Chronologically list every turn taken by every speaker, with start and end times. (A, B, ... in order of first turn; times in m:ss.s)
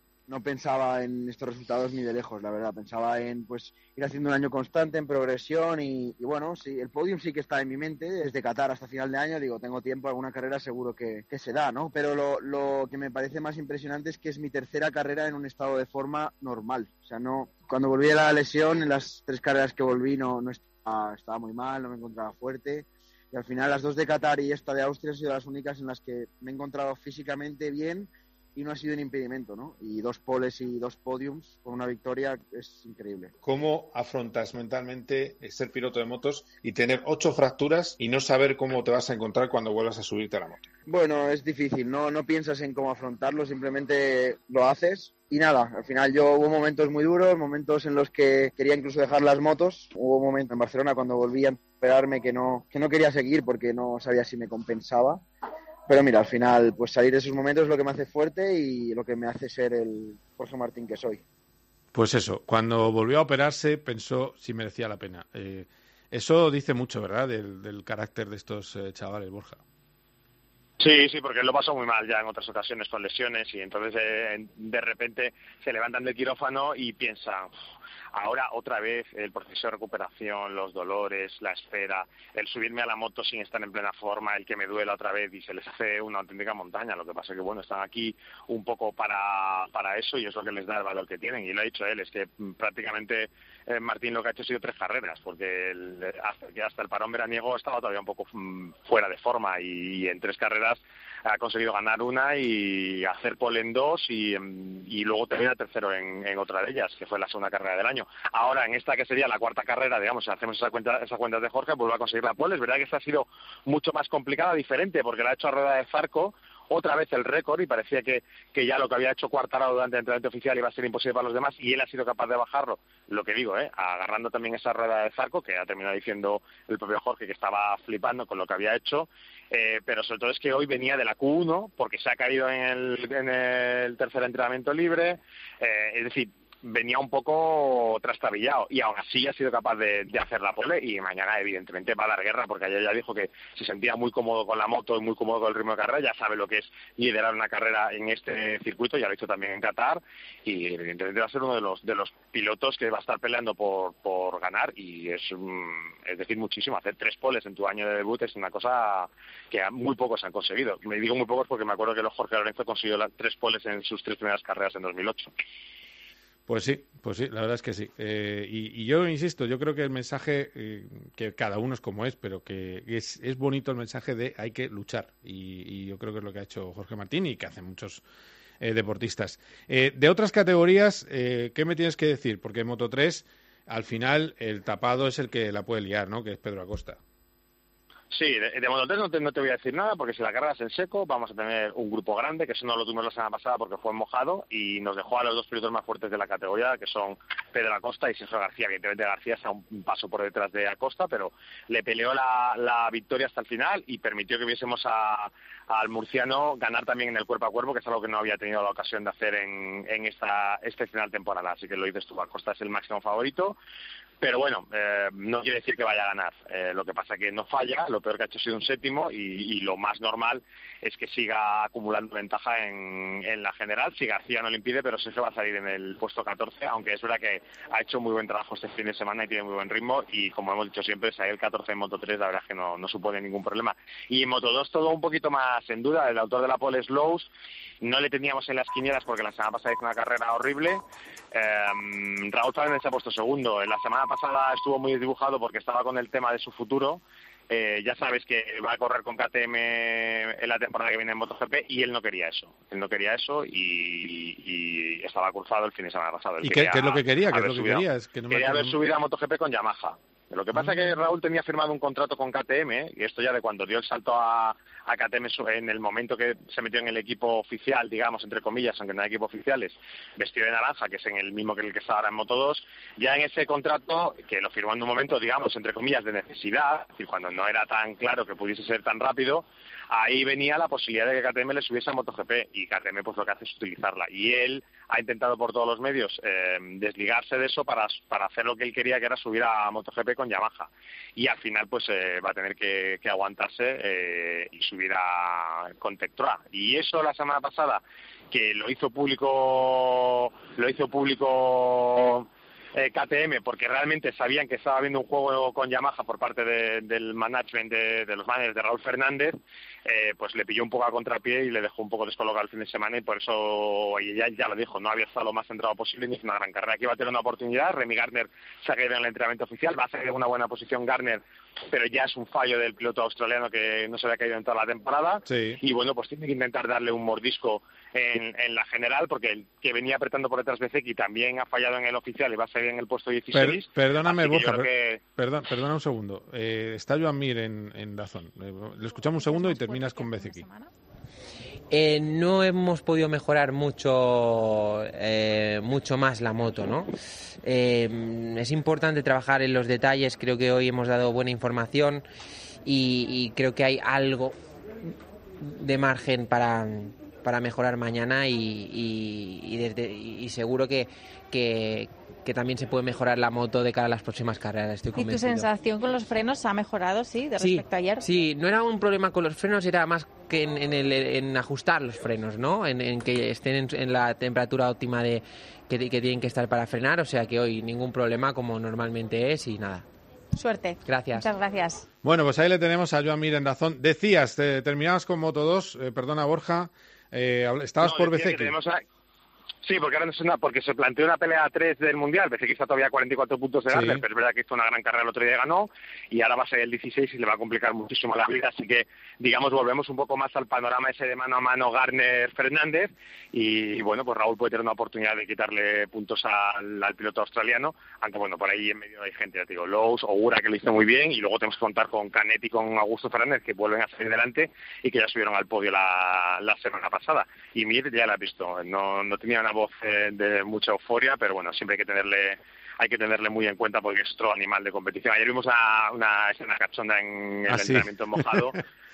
0:00.3-0:33.3 A
0:33.4-0:40.6 B
0:40.9-0:55.2 A
0:55.9-1:01.2 A
1:01.9-1:09.6 B
1:10.8-1:17.5 C
1:18.1-2:45.3 C
2:46.5-2:58.0 B
2:58.6-3:07.0 B
3:08.1-3:33.6 C
3:34.2-3:57.3 C
3:57.8-5:35.0 C
4:16.4-4:18.8 B
5:25.3-5:25.6 B
5:33.3-5:40.4 B
5:39.1-5:40.7 D
5:41.7-5:46.9 E
5:47.4-5:52.0 E
5:52.6-5:54.3 E
5:54.8-6:05.5 E
6:04.9-6:08.1 D
6:07.4-6:19.8 E
6:20.4-6:21.8 D
6:20.8-6:21.3 E
6:22.0-6:28.5 B
6:27.8-6:28.8 C
6:29.6-7:08.6 C
6:33.7-6:34.0 B
7:07.5-7:08.5 B